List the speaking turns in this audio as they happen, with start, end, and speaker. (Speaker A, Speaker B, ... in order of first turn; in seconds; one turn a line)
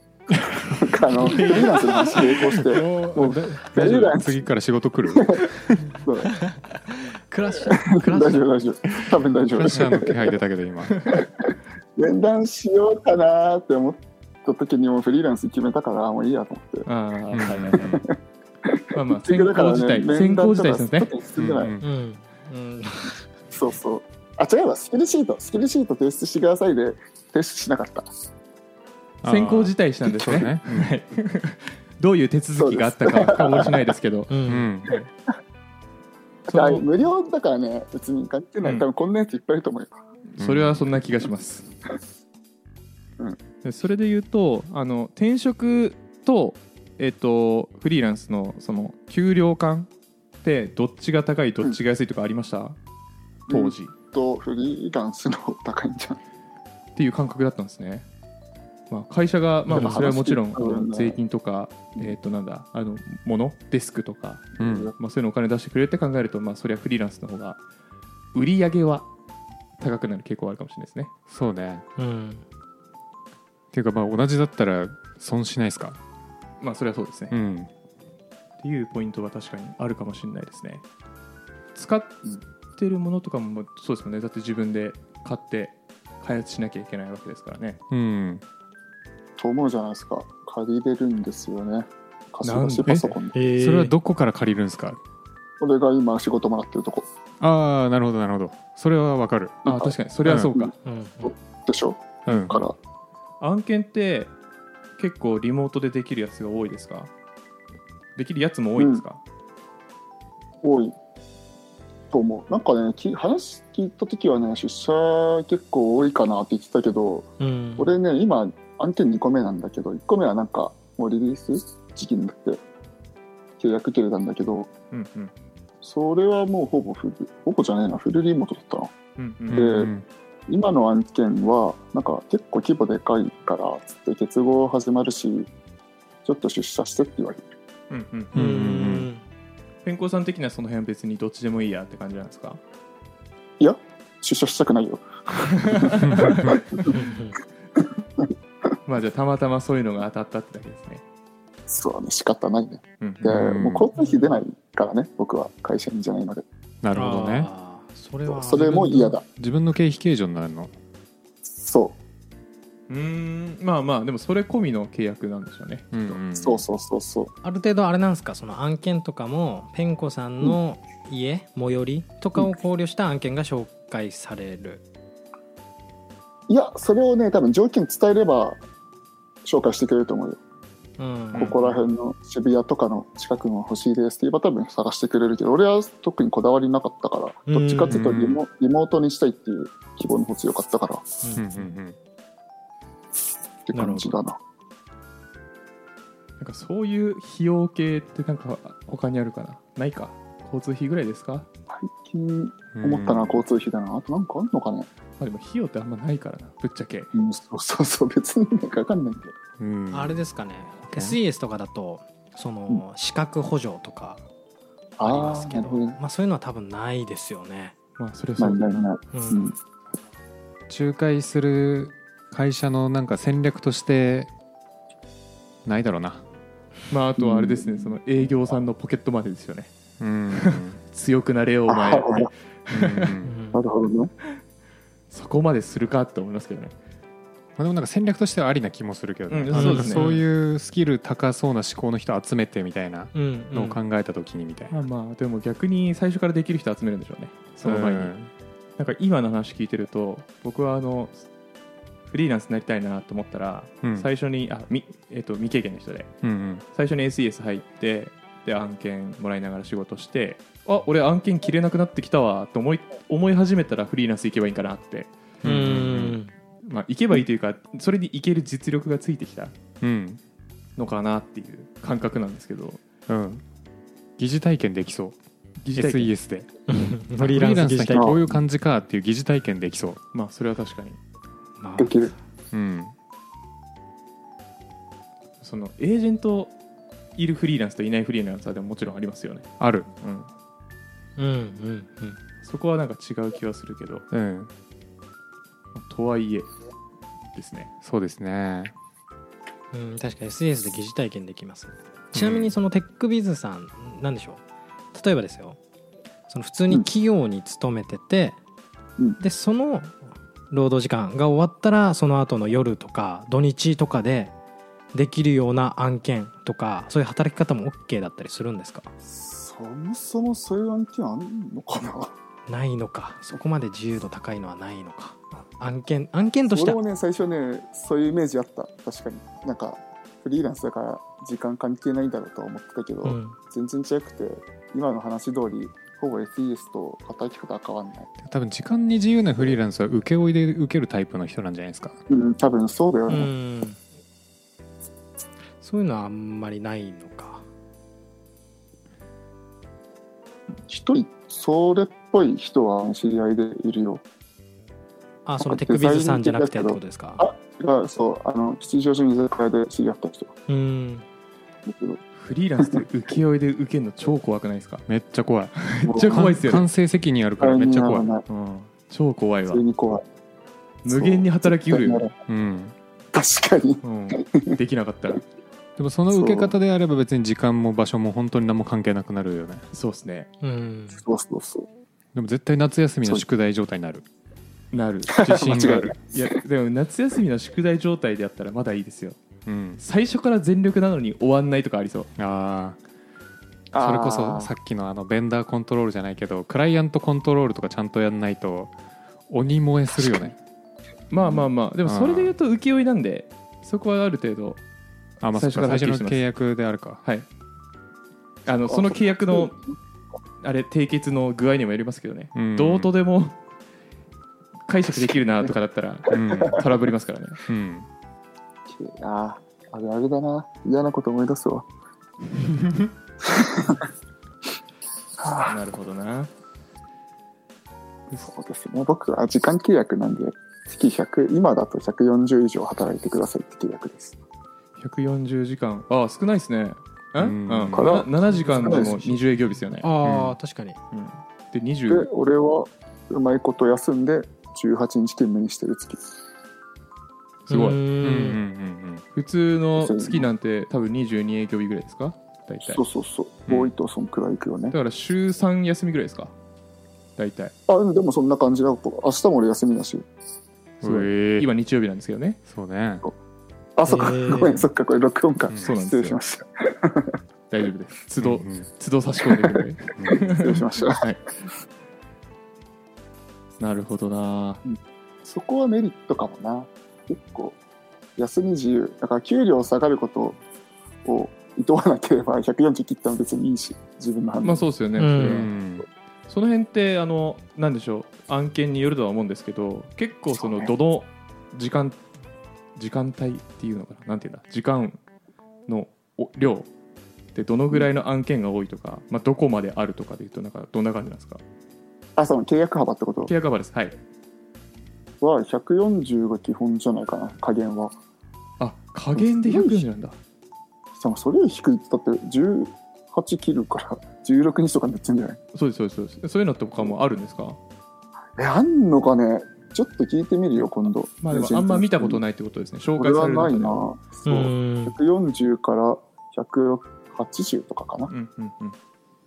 Speaker A: 0.3-4.5
Speaker B: 1.2-2.3
Speaker C: 2.3-5.8
Speaker A: 5.2-6.3
Speaker B: 6.3-8.5
Speaker A: 7.6-10.4
Speaker C: 9.5-11.0
Speaker A: 11.1-16.9
Speaker D: 16.9-18.0
Speaker C: 17.3-18.1
Speaker A: 18.6-21.7
Speaker D: 18.9-21.1
Speaker C: 21.4-21.9
Speaker B: 21.8-23.3
Speaker A: 23.5-28.1
Speaker C: 29.2-30.9
Speaker D: 29.2-34.3
Speaker A: 32.6-33.9
Speaker B: 34.3-34.7
Speaker C: 34.5-34.9
Speaker D: 36.5-36.9
Speaker A: 36.5-40.0
Speaker D: 40.4-41.7
Speaker C: 40.4-40.9
Speaker D: 43.6-49.9
Speaker D: 50.4-52.8
Speaker A: 53.5-56.2
Speaker D: 53.5-53.9
Speaker D: 57.0-58.1
Speaker D: 58.9-67.6
Speaker A: 59.7-61.2
Speaker A: 64.6-64.9
Speaker C: 64.6-64.9
Speaker D: 68.3-69.1
Speaker D: 69.8-71.1
Speaker C: 71.3-71.8
Speaker B: 72.0-72.4
Speaker C: 73.7-76.0
Speaker D: 76.6-77.4
Speaker C: 77.3-77.7
Speaker D: 78.6-80.8
Speaker D: 81.8-82.2
Speaker D: 82.8-87.8
Speaker C: 87.9-88.4
Speaker A: 89.4-93.4
Speaker D: 92.4-93.2
Speaker B: 93.3-93.9
Speaker C: 93.6-95.0
Speaker A: 95.6-97.1
Speaker C: 97.4-99.7
Speaker D: 99.6-100.7
Speaker A: 99.7-99.9
Speaker C: 100.3-100.5
Speaker B: 100.8-101.3
Speaker A: 101.2-102.8
Speaker C: 102.3-102.6
Speaker D: 103.4-104.3
Speaker D: 105.0-107.1
Speaker D: 108.2-109.2
Speaker A: 108.8-109.0
Speaker A: 110.6-111.0
Speaker A: 112.1-122.6
Speaker B: 117.4-117.9
Speaker A: 123.6-124.7
Speaker D: 124.9-125.3
Speaker A: 125.8-128.9
Speaker D: 129.2-129.8
Speaker C: 129.5-130.1
Speaker A: 129.5-129.9
Speaker A: 130.5-135.5
Speaker A: 136.2-137.5
Speaker D: 137.9-138.3
Speaker C: 138.3-139.1
Speaker B: 138.3-139.2
Speaker D: 139.8-142.6
Speaker A: 143.6-147.0
Speaker D: 145.6-146.9
Speaker C: 146.0-146.6
Speaker B: 146.8-147.4
Speaker D: 148.8-151.0
Speaker A: 151.7-156.5
Speaker D: 153.0-153.3
Speaker C: 153.2-153.9
Speaker B: 154.0-154.4
Speaker C: 156.8-157.5
Speaker B: 156.9-159.2
Speaker A: 158.3-159.2
Speaker C: 159.4-160.7
Speaker A: 161.4-162.0
Speaker D: 162.9-166.2
Speaker C: 165.9-166.6
Speaker A: 166.3-167.3
Speaker B: 167.4-174.8
Speaker A: 176.5-178.6
Speaker A: 179.4-180.4
Speaker B: 181.0-181.8
Speaker A: 181.3-191.1
Speaker B: 187.5-188.1
Speaker C: 187.9-188.4
Speaker B: 191.2-191.6
Speaker C: 191.4-192.0
Speaker A: 193.7-194.4
Speaker B: 193.7-194.2
Speaker D: 196.4-201.5
Speaker A: 201.7-204.9
Speaker C: 202.8-203.4
Speaker D: 205.2-207.1
Speaker A: 207.1-209.3
Speaker C: 209.6-210.2
Speaker B: 209.9-214.2
Speaker C: 210.8-211.2
Speaker A: 215.0-216.0
Speaker B: 215.0-217.8
Speaker D: 218.0-218.8
Speaker A: 218.4-219.6
Speaker B: 219.1-219.5
Speaker C: 220.7-224.3
Speaker C: 225.7-226.2
Speaker D: 226.9-229.7
Speaker A: 227.2-227.9
Speaker C: 230.0-230.8
Speaker D: 230.3-233.1
Speaker A: 231.7-232.3
Speaker C: 232.7-233.4
Speaker B: 233.2-233.6
Speaker A: 233.5-234.1
Speaker D: 235.1-236.7
Speaker C: 237.6-244.7
Speaker D: 239.3-240.2
Speaker B: 239.5-240.2
Speaker B: 243.1-243.8
Speaker D: 244.7-248.1
Speaker C: 247.6-248.3
Speaker D: 248.8-251.2
Speaker D: 252.1-256.1
Speaker C: 253.8-254.1
Speaker C: 256.2-256.6
Speaker D: 256.7-265.1
Speaker C: 265.4-266.2
Speaker B: 265.4-266.3
Speaker D: 266.6-269.6
Speaker C: 269.8-270.2
Speaker D: 270.8-272.8
Speaker C: 273.1-273.4
Speaker C: 274.2-275.2
Speaker D: 275.6-276.1
Speaker C: 275.8-276.5
Speaker B: 276.7-278.4
Speaker C: 277.2-280.0
Speaker A: 277.9-278.2
Speaker D: 280.1-281.0
Speaker B: 281.6-282.1
Speaker A: 281.8-282.1
Speaker C: 282.5-282.9
Speaker D: 285.4-286.5
Speaker D: 287.2-290.3
Speaker C: 289.6-289.9
Speaker B: 291.2-292.2
Speaker D: 292.4-294.1
Speaker C: 294.1-294.5
Speaker D: 295.7-296.5
Speaker D: 297.3-297.7
Speaker C: 297.8-298.7
Speaker B: 299.7-304.4
Speaker C: 302.1-302.5
Speaker B: 304.9-305.6
Speaker B: 306.3-308.4
Speaker B: 309.2-310.0
Speaker B: 310.5-314.3
Speaker B: 314.9-318.9
Speaker A: 319.1-322.1
Speaker B: 322.5-326.8
Speaker A: 326.5-338.1
Speaker B: 333.0-333.4
Speaker C: 338.2-342.0
Speaker A: 342.1-343.3
Speaker B: 343.1-343.8
Speaker B: 345.6-347.4
Speaker A: 350.7-354.0
Speaker B: 355.3-357.2
Speaker A: 355.4-360.3
Speaker B: 360.5-361.0
Speaker A: 361.7-362.0
Speaker D: 362.1-364.9
Speaker C: 364.9-368.1
Speaker D: 365.6-366.7
Speaker A: 365.8-366.3
Speaker A: 367.4-368.2
Speaker D: 368.3-369.6
Speaker A: 369.5-370.0
Speaker D: 370.8-372.1
Speaker A: 370.9-372.2
Speaker C: 372.3-372.8
Speaker A: 373.1-374.6
Speaker D: 373.8-375.3
Speaker C: 375.8-379.6
Speaker A: 376.1-376.5
Speaker D: 379.7-380.3
Speaker B: 380.4-381.0
Speaker A: 381.0-381.7
Speaker C: 382.1-384.1
Speaker D: 384.7-389.2
Speaker A: 385.1-386.4
Speaker C: 385.2-385.9
Speaker C: 389.5-389.8
Speaker D: 389.8-392.1
Speaker C: 392.2-392.8
Speaker A: 393.7-394.5
Speaker C: 393.8-398.7
Speaker C: 399.3-400.4
Speaker D: 401.1-404.6
Speaker C: 401.9-402.3
Speaker D: 405.2-406.2
Speaker C: 405.2-407.0
Speaker D: 408.5-409.6
Speaker A: 408.6-409.8
Speaker D: 410.4-413.4
Speaker C: 412.4-412.9
Speaker D: 414.7-417.4
Speaker C: 416.1-416.7
Speaker C: 417.5-417.9
Speaker A: 418.7-421.7
Speaker A: 423.2-423.9
Speaker A: 425.2-425.5
Speaker D: 425.4-426.3
Speaker A: 428.2-434.2
Speaker D: 434.8-439.9
Speaker C: 437.2-437.9
Speaker A: 437.7-439.2
Speaker B: 438.5-438.8
Speaker B: 439.8-440.8
Speaker C: 440.0-440.4
Speaker D: 440.9-442.1
Speaker A: 441.9-446.0
Speaker D: 447.5-447.8
Speaker B: 447.5-448.4
Speaker C: 448.0-449.1
Speaker D: 449.1-452.8
Speaker A: 449.8-450.3
Speaker A: 452.7-454.8
Speaker D: 454.7-456.3
Speaker D: 457.2-457.5
Speaker A: 457.7-460.1
Speaker C: 460.8-461.5
Speaker D: 460.8-462.4
Speaker C: 462.5-463.0
Speaker A: 463.8-467.2
Speaker B: 463.9-464.7
Speaker D: 465.6-466.2
Speaker D: 467.5-471.2
Speaker C: 468.2-468.7
Speaker C: 469.9-470.4
Speaker A: 470.1-471.1
Speaker D: 473.6-474.6
Speaker A: 474.6-477.6
Speaker A: 478.2-480.4
Speaker A: 481.0-484.7
Speaker D: 484.4-485.5
Speaker B: 485.0-485.5
Speaker C: 485.2-485.9
Speaker D: 486.3-492.0
Speaker A: 490.4-490.7
Speaker D: 492.8-495.0
Speaker D: 495.7-496.7
Speaker D: 497.3-501.4
Speaker A: 502.2-503.3
Speaker D: 503.2-504.0
Speaker A: 505.2-507.9
Speaker D: 508.6-510.2
Speaker A: 509.2-509.9
Speaker A: 510.9-515.4
Speaker D: 515.5-517.6
Speaker A: 518.4-522.2
Speaker D: 521.2-523.9
Speaker A: 523.0-528.1
Speaker B: 524.3-525.0
Speaker D: 528.1-528.8